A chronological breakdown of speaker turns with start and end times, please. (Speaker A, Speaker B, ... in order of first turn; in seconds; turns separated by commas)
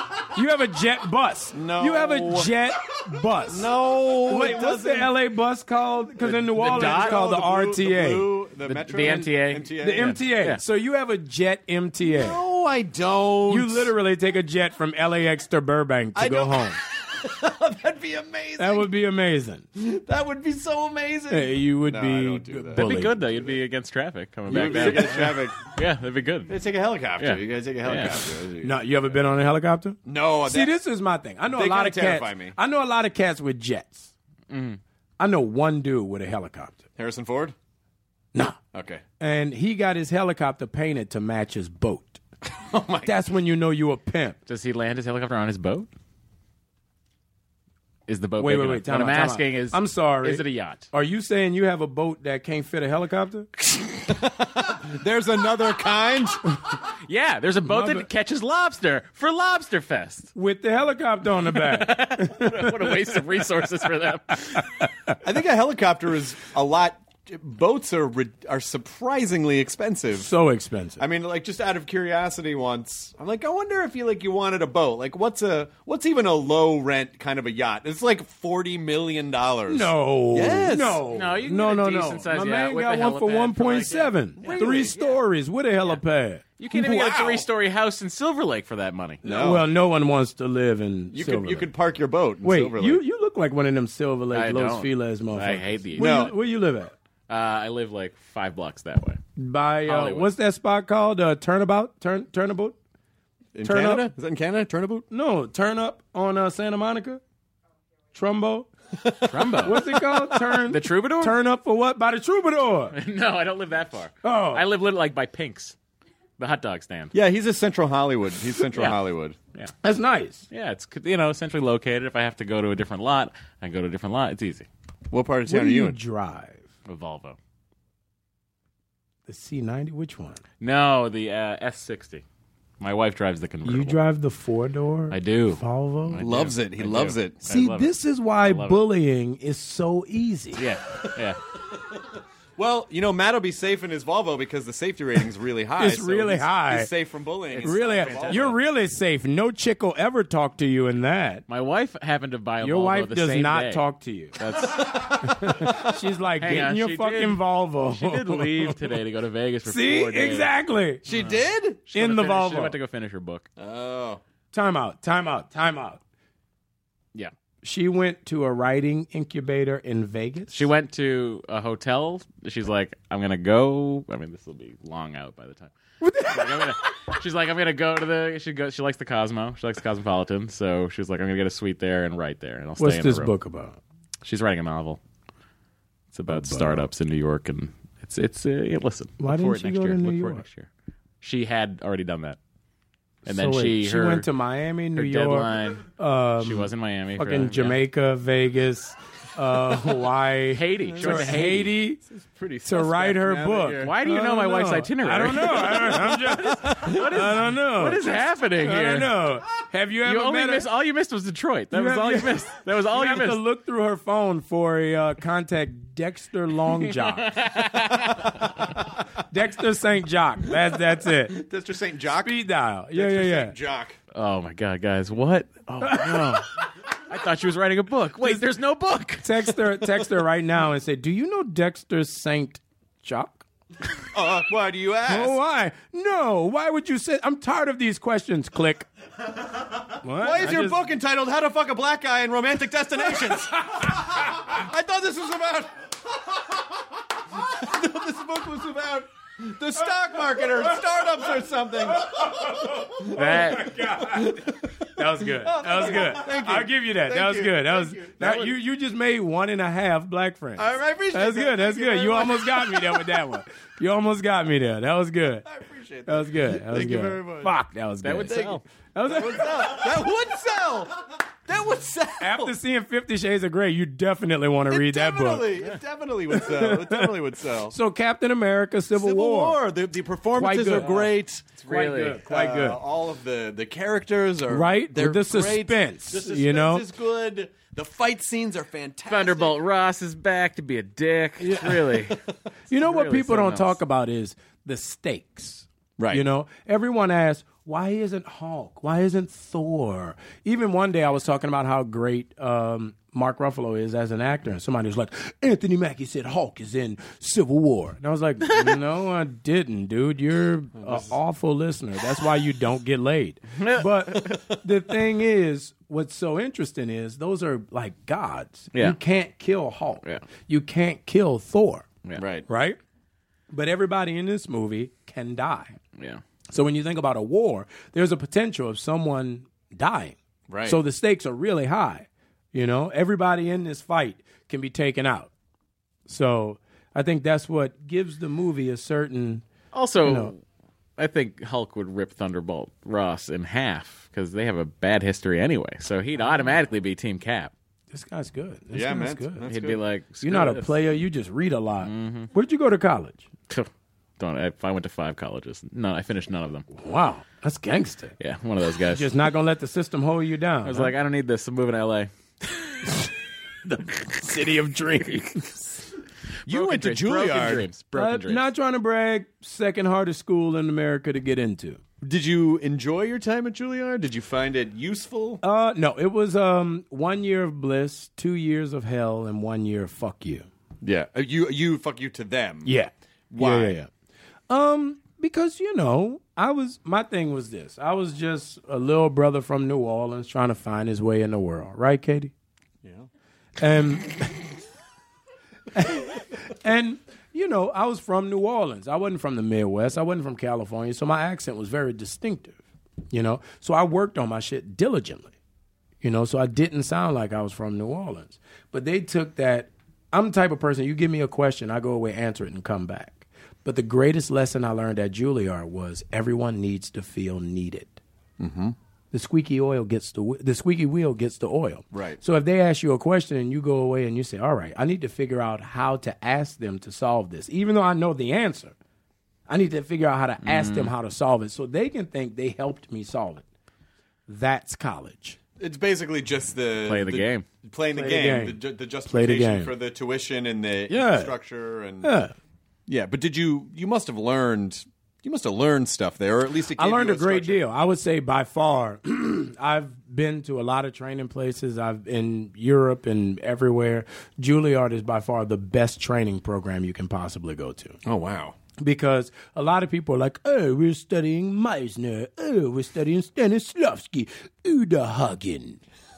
Speaker A: 0.3-3.7, Speaker B: 1.5-2.5, Speaker B: 3.5-5.1, Speaker A: 4.3-12.4, Speaker B: 6.2-10.2, Speaker C: 6.6-7.2, Speaker C: 8.7-10.6, Speaker B: 12.0-13.9, Speaker A: 13.5-16.8, Speaker B: 16.1-18.9, Speaker A: 18.6-19.7, Speaker B: 19.8-22.9, Speaker A: 21.3-23.3, Speaker C: 22.8-26.5, Speaker B: 24.5-25.7, Speaker A: 24.5-25.2, Speaker B: 26.5-28.8, Speaker C: 27.2-28.3, Speaker A: 28.6-34.1, Speaker B: 30.1-30.8, Speaker B: 31.5-32.5, Speaker C: 34.5-34.8, Speaker A: 35.2-36.8, Speaker B: 37.0-37.5, Speaker B: 38.7-39.0, Speaker A: 39.2-42.2, Speaker B: 42.5-43.1, Speaker A: 43.0-44.4, Speaker C: 44.5-45.9, Speaker C: 48.1-50.9, Speaker A: 48.4-53.5, Speaker B: 53.7-56.5, Speaker C: 57.0-60.3, Speaker A: 57.6-58.1, Speaker A: 60.4-63.0, Speaker C: 61.5-64.8, Speaker A: 64.8-65.2, Speaker B: 65.2-70.3, Speaker A: 70.2-71.0, Speaker B: 71.0-81.0, Speaker A: 79.7-86.4, Speaker C: 81.1-85.0, Speaker B: 84.4-85.2, Speaker C: 86.6-89.2, Speaker B: 86.7-87.5, Speaker B: 89.2-89.7, Speaker A: 89.2-91.7, Speaker B: 91.1-93.0, Speaker A: 92.4-96.9, Speaker C: 94.3-96.2, Speaker B: 96.0-96.4, Speaker C: 97.3-99.2, Speaker A: 99.4-102.8, Speaker C: 99.9-100.3, Speaker B: 103.5-105.1, Speaker A: 103.6-104.1, Speaker A: 105.1-107.2, Speaker A: 108.1-108.7, Speaker B: 109.0-109.8, Speaker C: 109.3-109.8, Speaker A: 109.6-113.0, Speaker C: 110.6-111.4, Speaker C: 112.9-115.8, Speaker A: 114.2-114.6, Speaker C: 116.4-117.1, Speaker B: 117.1-119.4, Speaker C: 118.7-119.0, Speaker A: 119.8-120.5, Speaker C: 120.5-124.7, Speaker B: 125.1-126.0, Speaker A: 125.5-126.7, Speaker C: 126.9-127.4, Speaker A: 129.3-130.4, Speaker C: 130.6-132.2, Speaker C: 132.8-134.0, Speaker A: 133.7-136.2, Speaker C: 135.1-138.8, Speaker B: 136.2-137.4, Speaker A: 137.5-140.6, Speaker C: 140.6-141.4, Speaker B: 142.6-148.6, Speaker A: 145.8-146.9, Speaker C: 147.5-148.6, Speaker A: 147.6-151.4, Speaker C: 151.5-153.8, Speaker A: 152.6-154.4, Speaker C: 154.4-155.3, Speaker A: 154.9-158.9, Speaker C: 156.4-160.5, Speaker A: 159.7-161.0, Speaker B: 161.1-161.8, Speaker C: 161.1-163.5, Speaker A: 161.9-162.8, Speaker B: 163.6-164.2, Speaker A: 164.5-166.0, Speaker A: 167.6-170.7, Speaker C: 170.5-183.3, Speaker A: 176.0-176.7, Speaker A: 182.8-183.8, Speaker C: 184.2-185.0, Speaker C: 186.1-190.7, Speaker A: 186.3-186.8, Speaker A: 189.2-190.4, Speaker C: 191.2-192.4, Speaker A: 193.2-202.0, Speaker C: 193.3-194.3, Speaker C: 194.9-195.9, Speaker C: 196.4-197.8, Speaker C: 200.5-201.8, Speaker B: 200.8-203.9, Speaker A: 202.7-208.0, Speaker C: 203.6-206.1, Speaker B: 205.6-207.0, Speaker C: 206.7-209.2, Speaker A: 208.6-210.7, Speaker C: 210.1-213.4, Speaker A: 211.7-217.3, Speaker C: 216.8-218.4, Speaker A: 219.3-221.4, Speaker B: 221.3-222.4, Speaker A: 222.2-223.6, Speaker B: 222.9-224.0, Speaker C: 224.1-226.4, Speaker A: 225.8-226.4, Speaker C: 227.1-229.3, Speaker A: 229.2-233.4, Speaker B: 234.1-235.4, Speaker A: 235.1-238.9, Speaker A: 240.0-240.8, Speaker B: 240.2-246.6, Speaker B: 247.3-253.2, Speaker A: 253.0-254.4, Speaker C: 253.1-253.7, Speaker B: 254.1-254.7, Speaker A: 255.0-265.4, Speaker B: 255.3-258.5, Speaker B: 260.6-263.2, Speaker B: 265.4-267.5, Speaker A: 266.1-269.8, Speaker C: 268.0-268.6, Speaker B: 268.3-272.6, Speaker A: 272.2-275.5, Speaker B: 274.7-277.8, Speaker A: 276.3-277.1, Speaker A: 277.7-279.6, Speaker B: 278.9-289.6, Speaker A: 280.4-281.1, Speaker C: 280.8-281.0, Speaker C: 281.6-282.2, Speaker A: 281.7-282.8, Speaker A: 284.5-286.9, Speaker C: 289.1-292.1, Speaker A: 291.4-291.9, Speaker A: 292.7-321.9, Speaker C: 292.7-293.8, Speaker B: 296.0-296.2, Speaker B: 310.8-311.2, Speaker C: 313.6-313.9, Speaker B: 314.2-314.6, Speaker B: 322.2-322.5, Speaker A: 322.5-322.8, Speaker A: 323.5-325.8, Speaker C: 326.0-326.2, Speaker A: 326.5-335.3, Speaker B: 330.5-330.8, Speaker A: 336.1-339.4, Speaker C: 339.7-340.4, Speaker A: 340.0-340.3, Speaker C: 341.0-347.5, Speaker A: 347.9-349.5, Speaker B: 348.7-349.8, Speaker C: 349.4-350.8, Speaker A: 350.2-353.3, Speaker C: 351.8-352.3, Speaker C: 353.5-356.7, Speaker A: 356.7-358.1, Speaker C: 358.2-359.1, Speaker A: 358.9-360.9, Speaker C: 360.6-362.1, Speaker A: 363.7-365.6, Speaker B: 366.5-367.7, Speaker C: 366.5-368.5, Speaker A: 367.9-371.8, Speaker B: 372.0-375.4, Speaker A: 375.4-380.5, Speaker B: 380.8-382.7, Speaker A: 382.6-383.9, Speaker B: 383.3-383.8, Speaker A: 384.5-392.3, Speaker B: 392.8-393.1, Speaker A: 393.6-394.4, Speaker A: 395.7-402.6, Speaker A: 403.1-405.3, Speaker A: 406.0-418.0, Speaker B: 418.4-418.8, Speaker A: 419.1-428.8, Speaker B: 421.9-422.2, Speaker A: 429.5-433.4, Speaker C: 430.4-430.9, Speaker A: 434.3-435.4, Speaker B: 435.6-442.1, Speaker C: 436.9-437.4, Speaker A: 437.9-439.7, Speaker A: 440.9-441.3, Speaker A: 442.0-442.3, Speaker B: 442.9-447.6, Speaker A: 446.8-458.0, Speaker B: 458.1-458.6, Speaker A: 458.8-465.8